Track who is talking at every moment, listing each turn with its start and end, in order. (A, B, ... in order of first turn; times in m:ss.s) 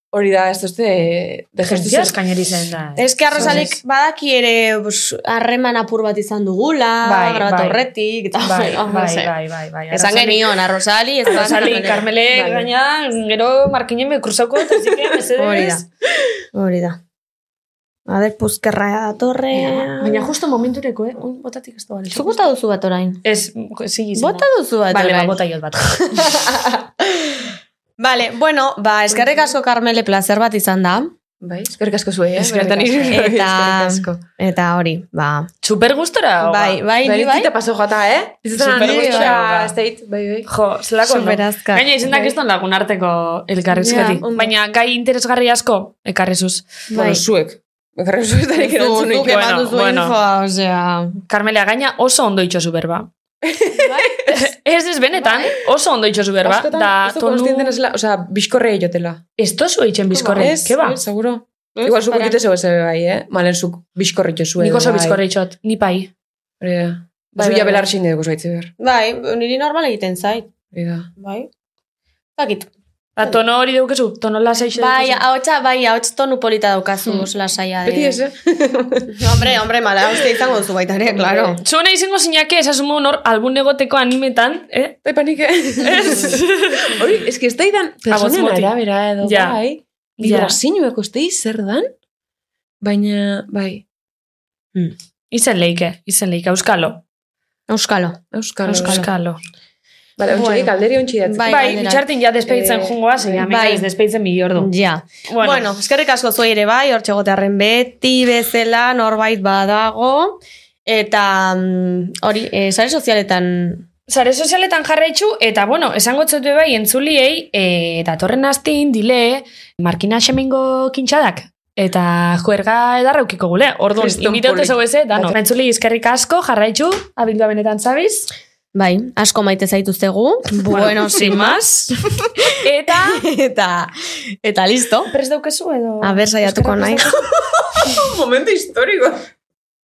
0:00.1-0:02.2 A
0:01.6-0:03.8 B
0:03.0-0:09.3 C
0:03.4-0:03.7 A
0:07.0-0:07.8 B
0:08.4-0:10.5 B
0:09.9-0:12.0 C
0:11.3-0:15.8 B
0:11.3-0:12.7 A
0:15.3-0:15.8 C
0:16.4-0:17.0 C
0:18.1-0:20.3 C
0:19.9-0:22.4 B
0:22.1-0:23.2 C
0:23.2-0:26.2 B
0:24.2-0:25.4 C
0:26.1-0:31.1 C
0:31.4-0:34.2 A
0:32.4-0:35.5 C
0:35.6-0:36.8 B
0:36.4-0:37.5 C
0:37.0-0:40.5 A
0:38.6-0:39.7 B
0:38.6-0:39.4 C
0:40.5-0:46.7 B
0:41.0-0:42.3 C
0:43.7-0:44.2 C
0:43.8-0:44.6 A
0:46.9-0:47.2 C
0:46.9-0:49.4 A
0:48.6-0:51.2 C
0:49.2-0:50.1 B
0:51.3-0:53.1 B
0:53.4-0:54.4 A
0:53.7-0:54.2 C
0:54.3-0:57.7 B
0:55.2-0:55.6 C
0:56.4-0:59.3 A
0:59.4-1:01.0 B
1:00.1-1:05.2 A
1:01.7-1:02.4 C
1:04.6-1:06.1 B
1:06.6-1:08.7 A
1:07.4-1:07.8 C
1:08.8-1:10.5 C
1:10.7-1:11.1 A
1:11.2-1:11.5 C
1:12.4-1:12.7 C
1:13.2-1:15.2 B
1:14.8-1:18.2 C
1:17.8-1:19.4 A
1:19.1-1:21.6 C
1:21.0-1:21.6 A
1:21.6-1:25.0 B
1:25.0-1:31.9 A
1:25.8-1:26.9 B
1:28.1-1:29.6 B
1:30.2-1:30.6 B
1:32.8-1:33.8 A
1:35.3-1:37.0 B
1:37.7-1:38.2 C
1:38.3-1:39.1 A
1:38.6-1:39.4 B
1:38.7-1:39.0 C
1:40.2-1:41.9 A
1:40.3-1:42.0 C
1:41.5-1:44.7 B
1:42.4-1:43.0 A
1:43.3-1:43.9 C
1:44.6-1:53.9 C
1:45.3-1:45.7 B
1:54.1-2:08.3 B
2:04.0-2:05.3 A
2:08.7-2:15.1 C
2:10.7-2:12.0 B
2:12.5-2:13.3 B
2:15.1-2:17.2 B
2:16.0-2:17.1 C
2:17.2-2:19.3 A